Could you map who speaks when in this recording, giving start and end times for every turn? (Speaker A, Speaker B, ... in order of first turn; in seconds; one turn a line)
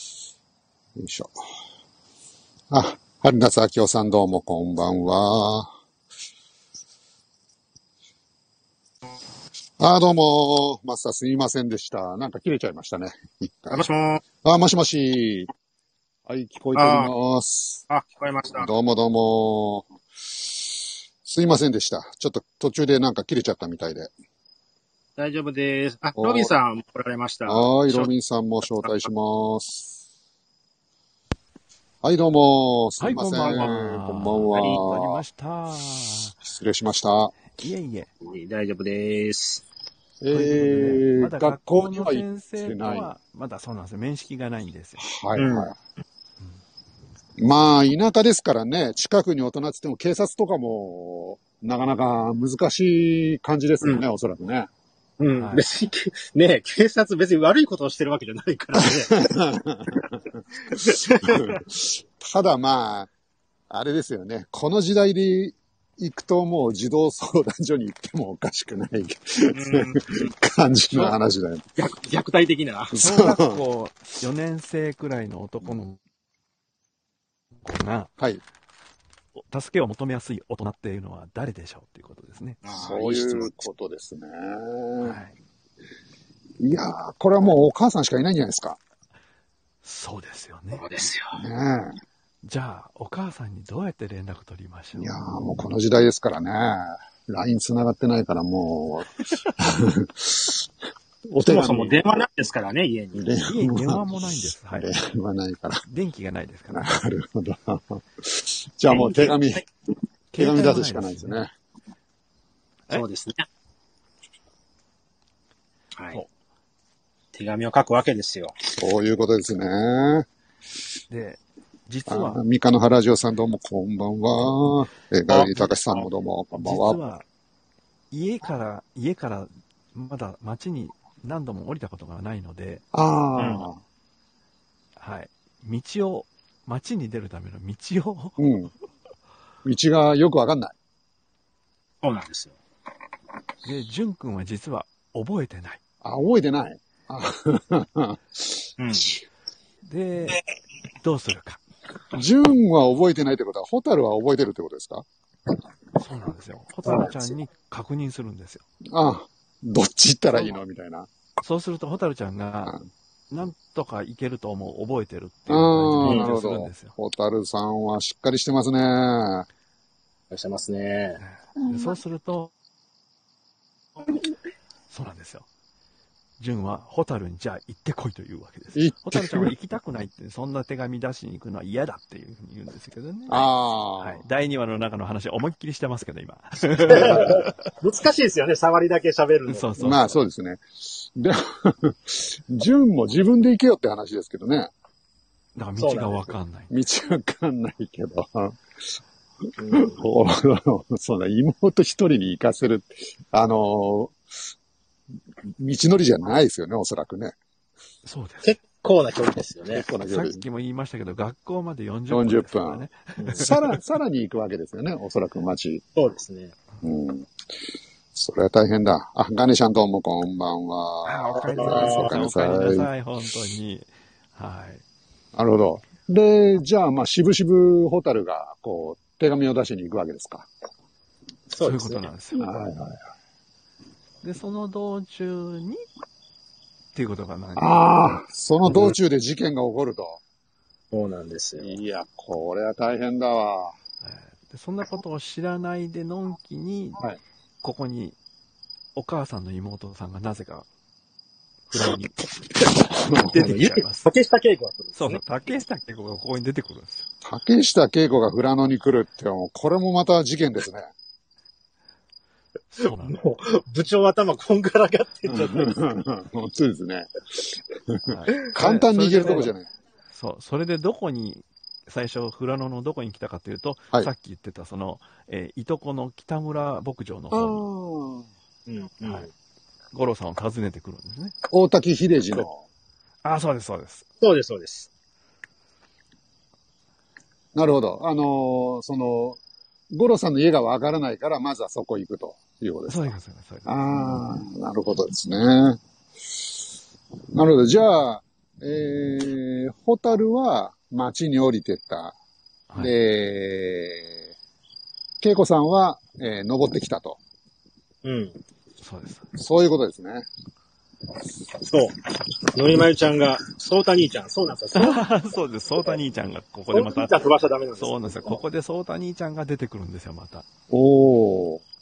Speaker A: 1.0-1.3
Speaker A: 2.7-5.7
Speaker A: 9.8-13.9
Speaker B: 13.7-14.2
Speaker A: 14.4-15.5
Speaker A: 16.3-17.9
Speaker B: 16.8-17.1
Speaker B: 17.9-18.7
Speaker A: 18.6-19.9
Speaker A: 21.2-24.1
Speaker B: 25.2-28.1
Speaker A: 26.2-26.5
Speaker A: 27.4-29.9
Speaker A: 32.0-35.2
Speaker C: 33.0-36.4
Speaker B: 33.4-33.7
Speaker A: 36.4-37.4
Speaker C: 37.5-38.1
Speaker B: 38.2-39.6
Speaker A: 40.2-43.1
Speaker C: 40.3-45.0
Speaker A: 45.0-45.8
Speaker B: 45.4-45.7
Speaker A: 47.4-54.7
Speaker B: 55.2-59.2
Speaker C: 55.4-55.6
Speaker A: 58.8-60.2
Speaker B: 60.7-61.6
Speaker A: 60.7-63.1
Speaker A: 63.7-71.7
Speaker B: 69.5-70.3
Speaker B: 71.8-73.0
Speaker A: 72.9-73.6
Speaker C: 73.0-76.0
Speaker C: 77.6-78.1
Speaker C: 79.5-82.6
Speaker B: 82.6-83.5
Speaker A: 82.7-85.2
Speaker C: 85.0-85.3
Speaker A: 86.6-88.8
Speaker C: 89.8-90.8
Speaker B: 90.7-91.4
Speaker A: 91.4-92.0
Speaker C: 92.4-95.1
Speaker A: 95.0-100.6
Speaker A: 101.3-102.0
Speaker B: 101.5-103.3
Speaker A: 103.2-105.8
Speaker C: 103.5-104.9
Speaker C: 105.9-106.9
Speaker A: 106.7-109.7
Speaker B: 108.9-109.4
Speaker C: 110.3-111.4
Speaker A: 110.4-111.5
Speaker B: 112.9-113.5
Speaker B: 117.3-118.6
Speaker A: 118.8-120.3
Speaker C: 121.1-122.4
Speaker A: 122.1-127.0
Speaker B: 125.3-126.1
Speaker C: 126.6-127.3
Speaker C: 128.1-132.8
Speaker A: 132.9-133.8
Speaker B: 133.4-133.7
Speaker C: 135.0-138.4
Speaker A: 138.4-138.7
Speaker A: 139.7-140.8
Speaker B: 142.0-142.6
Speaker C: 143.6-145.8
Speaker A: 146.0-149.2
Speaker B: 148.8-149.1
Speaker C: 149.9-150.4
Speaker C: 151.0-151.6
Speaker A: 152.1-155.1
Speaker C: 156.0-158.6
Speaker A: 158.9-161.1
Speaker C: 161.4-162.8
Speaker C: 163.3-166.9
Speaker A: 165.5-169.5
Speaker B: 166.0-166.3
Speaker B: 170.3-171.2
Speaker C: 171.2-172.5
Speaker A: 171.6-172.0
Speaker C: 174.9-175.5
Speaker C: 176.4-183.4
Speaker A: 178.8-179.5
Speaker A: 183.3-184.2
Speaker C: 184.0-187.5
Speaker A: 186.9-187.4
Speaker B: 186.9-190.0
Speaker C: 189.5-190.1
Speaker A: 189.8-194.7
Speaker C: 195.6-196.7
Speaker B: 195.8-196.3
Speaker A: 196.7-198.6
Speaker B: 199.6-200.0
Speaker A: 199.7-204.2
Speaker A: 205.6-207.3
Speaker C: 208.1-208.6
Speaker B: 208.4-209.9
Speaker A: 209.7-210.4
Speaker C: 210.0-213.6
Speaker A: 212.1-212.8
Speaker B: 213.2-213.5
Speaker A: 213.4-215.8
Speaker B: 216.0-216.6
Speaker A: 216.8-217.3
Speaker A: 218.2-222.9
Speaker C: 221.0-224.8
Speaker B: 221.5-222.1
Speaker A: 225.3-230.5
Speaker B: 231.5-232.0
Speaker C: 231.6-232.5
Speaker A: 232.4-233.0
Speaker C: 234.2-235.8
Speaker C: 236.9-237.8
Speaker A: 237.6-240.2
Speaker B: 240.9-241.8
Speaker A: 241.6-243.8
Speaker C: 244.0-247.0
Speaker C: 247.6-248.2
Speaker C: 249.0-250.7
Speaker C: 251.7-252.2
Speaker A: 252.9-253.5
Speaker C: 253.0-254.1
Speaker B: 253.3-255.2
Speaker C: 255.0-257.1
Speaker A: 257.2-260.9
Speaker C: 262.7-263.2
Speaker B: 263.1-265.7
Speaker A: 265.3-269.7
Speaker C: 268.1-269.5
Speaker B: 268.4-268.8
Speaker C: 270.1-277.6
Speaker A: 277.3-278.3
Speaker B: 278.7-279.3
Speaker C: 279.9-281.4
Speaker A: 281.5-282.6
Speaker C: 283.2-284.1
Speaker B: 284.2-284.9
Speaker A: 287.6-289.4
Speaker A: 289.9-293.1
Speaker C: 292.9-294.2
Speaker A: 293.7-295.8
Speaker A: 297.3-302.1
Speaker A: 302.8-304.3
Speaker A: 305.2-307.2
Speaker B: 308.0-308.4
Speaker C: 308.8-309.3
Speaker A: 309.4-310.3
Speaker B: 311.6-315.0
Speaker C: 314.7-320.4
Speaker B: 316.7-318.4
Speaker A: 320.7-321.6